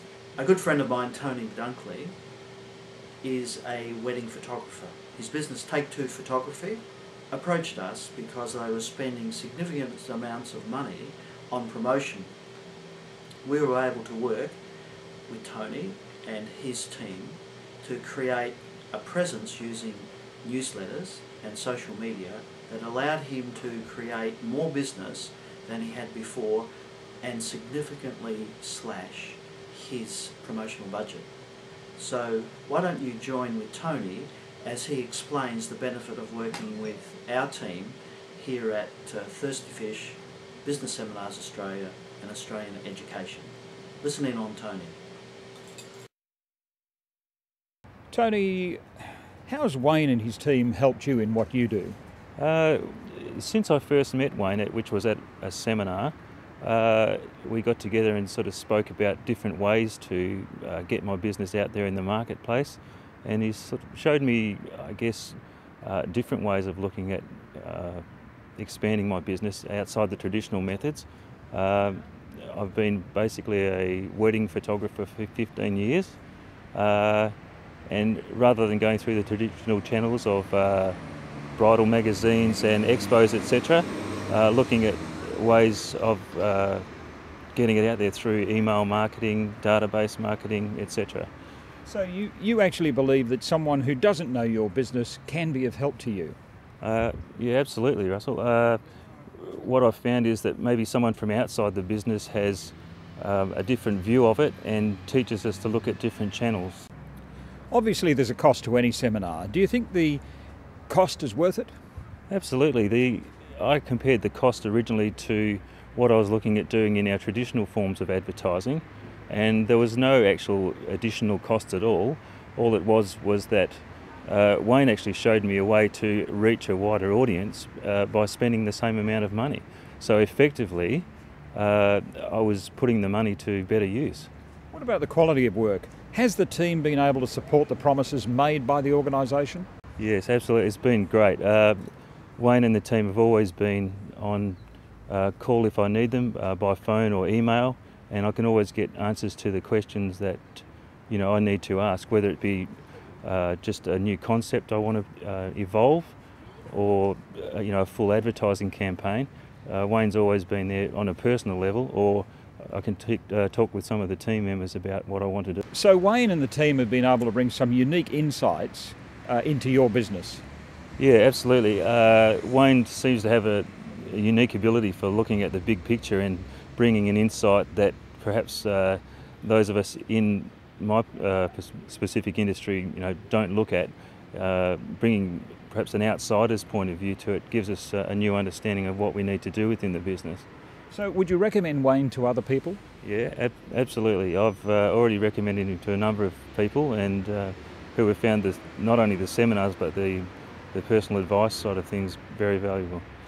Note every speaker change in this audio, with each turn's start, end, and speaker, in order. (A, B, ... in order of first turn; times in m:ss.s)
0:00.4-0:02.1 A
0:03.2-0:12.3 A
0:13.4-0:14.6 A
0:15.3-0:26.7 A
0:27.2-0:31.3 A
0:32.0-0:45.0 A
0:48.1-0:48.8 B
0:49.4-0:52.0 B
0:52.4-1:08.0 C
1:08.6-1:16.2 C
1:16.7-1:17.3 C
1:17.9-1:21.0 C
1:21.6-1:26.8 C
1:27.5-1:31.3 C
1:31.8-1:36.4 B
1:36.8-1:38.8 C
1:39.4-1:46.9 C
1:47.7-1:50.2 B
1:50.9-1:51.7 B
1:52.3-2:14.3 C
2:14.7-2:19.7 B
2:20.0-2:21.8 C
2:22.4-2:24.6 C
2:25.1-2:32.7 C
2:33.2-2:36.2 C
2:36.7-2:45.6 C
2:45.7-2:50.4 B
2:51.0-3:10.4 C
3:10.9-3:12.8 B
3:13.0-3:23.0 C